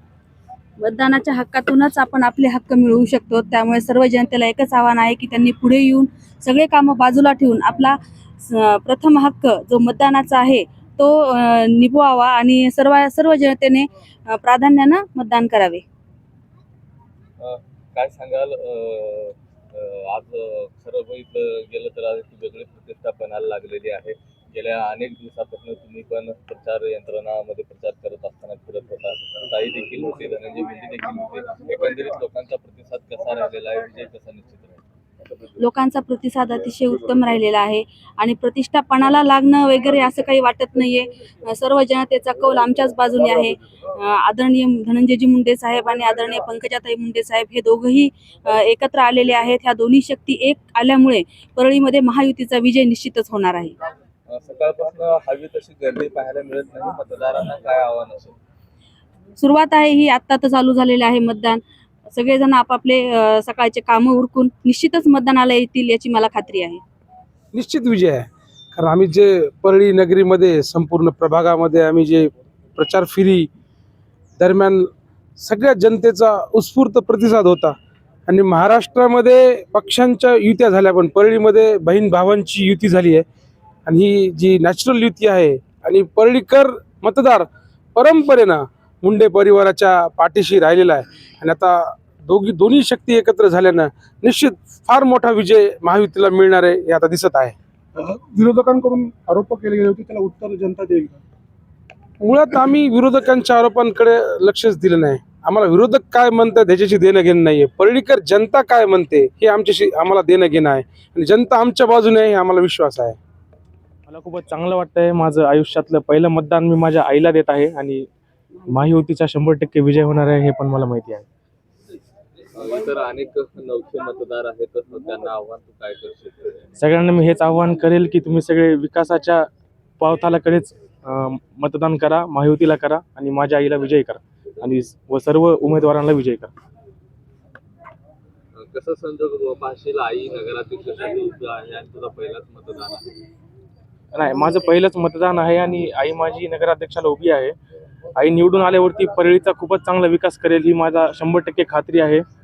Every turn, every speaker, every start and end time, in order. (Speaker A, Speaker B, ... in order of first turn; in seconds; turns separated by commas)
Speaker A: 0.8-15.8, Speaker B: 17.4-34.8, Speaker A: 35.6-53.7, Speaker B: 54.3-58.4, Speaker A: 59.4-66.8, Speaker C: 67.5-73.5, Speaker C: 74.4-77.7, Speaker C: 78.3-83.2, Speaker C: 83.8-97.5, Speaker D: 98.0-101.2, Speaker C: 102.2-113.2, Speaker E: 114.1-118.1, Speaker E: 118.7-121.3, Speaker B: 122.5-126.7, Speaker E: 126.8-129.5, Speaker E: 130.0-136.5, Speaker B: 138.5-143.1, Speaker E: 144.1-147.5, Speaker E: 148.2-152.2